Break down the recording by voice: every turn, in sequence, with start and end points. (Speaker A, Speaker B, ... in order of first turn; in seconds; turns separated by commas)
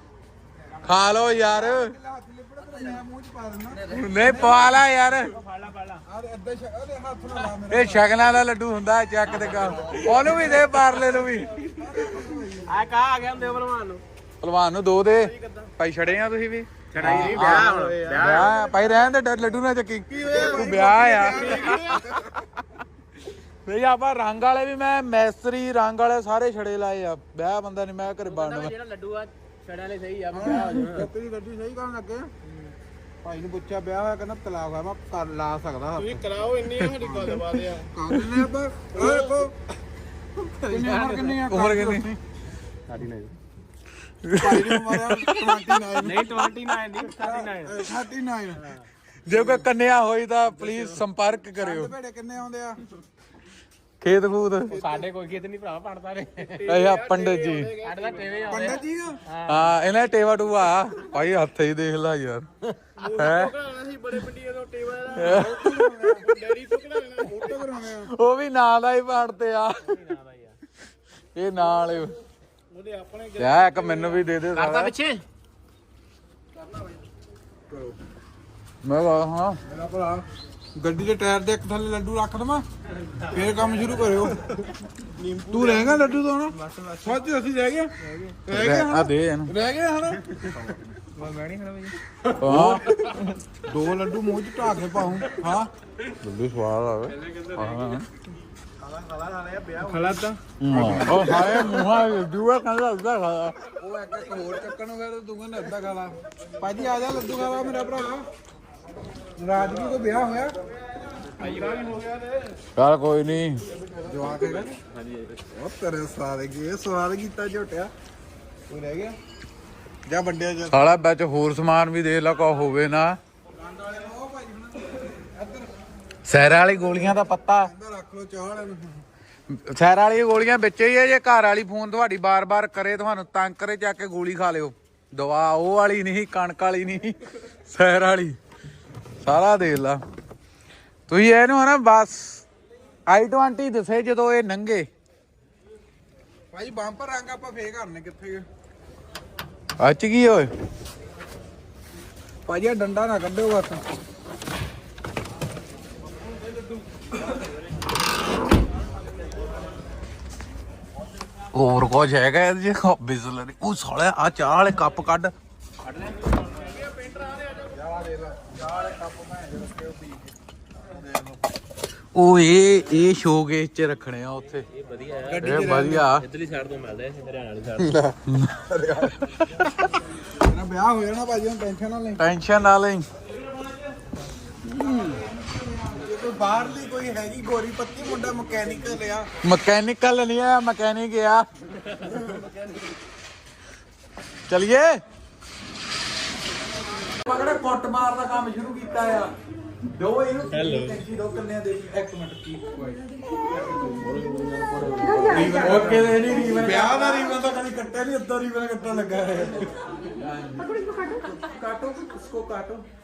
Speaker A: 0.4-4.7, Speaker B: 0.8-1.9, Speaker B: 3.9-5.3, Speaker C: 5.3-6.0, Speaker A: 6.0-8.1, Speaker B: 7.7-11.6, Speaker C: 9.3-10.2, Speaker A: 9.6-10.7, Speaker A: 11.6-13.0, Speaker C: 12.7-14.0, Speaker B: 14.4-22.0, Speaker C: 15.3-15.7, Speaker C: 16.9-18.8, Speaker A: 17.0-18.1, Speaker C: 20.1-20.7, Speaker A: 20.2-22.3, Speaker C: 21.4-21.8, Speaker B: 23.6-28.8, Speaker C: 28.3-31.1, Speaker A: 30.3-32.3, Speaker C: 32.5-32.8, Speaker A: 33.2-39.6, Speaker C: 36.0-37.9, Speaker A: 40.6-42.2, Speaker C: 40.7-41.3, Speaker B: 41.5-42.1, Speaker C: 42.9-43.3, Speaker B: 44.2-45.5, Speaker A: 44.4-48.8, Speaker C: 46.0-47.8, Speaker B: 49.3-51.9, Speaker A: 49.3-49.6, Speaker C: 50.6-50.9, Speaker A: 51.6-52.8, Speaker B: 54.0-54.8, Speaker C: 54.7-58.8, Speaker A: 54.7-55.1, Speaker B: 56.6-57.8, Speaker A: 58.4-59.2, Speaker C: 59.3-59.6, Speaker B: 59.5-62.5, Speaker C: 62.8-65.3, Speaker B: 63.0-63.5, Speaker B: 65.1-65.8, Speaker A: 65.1-66.6, Speaker C: 66.2-67.4, Speaker A: 67.2-68.1, Speaker B: 68.1-70.0, Speaker C: 69.9-70.5, Speaker B: 71.3-72.2, Speaker C: 72.7-75.2, Speaker B: 73.4-75.0, Speaker A: 77.7-78.0, Speaker B: 78.8-79.6, Speaker A: 79.7-82.7, Speaker A: 83.3-84.4, Speaker C: 85.2-86.0, Speaker A: 85.3-95.7, Speaker C: 86.7-87.1, Speaker B: 88.5-89.5, Speaker B: 92.4-92.9, Speaker B: 96.2-98.1, Speaker C: 97.3-97.7, Speaker C: 98.8-100.4, Speaker A: 99.8-101.9, Speaker B: 100.6-103.6, Speaker A: 103.7-108.3, Speaker A: 109.4-110.5, Speaker C: 111.4-112.5, Speaker B: 112.8-113.6, Speaker A: 113.9-114.8, Speaker C: 115.0-115.3, Speaker A: 115.5-117.9, Speaker A: 118.7-119.2, Speaker A: 120.1-120.8, Speaker B: 120.7-123.2, Speaker A: 123.5-125.7, Speaker B: 126.2-127.7, Speaker A: 126.8-129.0, Speaker B: 129.5-138.4, Speaker B: 139.2-140.0, Speaker B: 141.1-142.4, Speaker B: 143.1-144.9, Speaker A: 146.5-148.5, Speaker B: 149.8-150.5, Speaker A: 152.5-153.8, Speaker B: 161.5-165.3, Speaker C: 167.1-167.3, Speaker A: 167.7-171.4, Speaker B: 172.2-174.7, Speaker C: 174.7-175.5, Speaker A: 175.2-176.1, Speaker B: 175.4-176.3, Speaker C: 176.2-178.1, Speaker B: 178.2-179.9, Speaker A: 180.2-182.2, Speaker B: 182.2-183.1, Speaker A: 184.7-189.3, Speaker B: 189.4-191.5, Speaker A: 192.1-192.6, Speaker B: 194.5-195.0, Speaker B: 197.2-199.3, Speaker B: 199.8-203.0, Speaker C: 200.5-201.0, Speaker A: 203.7-204.2, Speaker C: 204.0-205.2, Speaker A: 204.9-207.8, Speaker B: 205.2-212.8, Speaker A: 208.7-209.7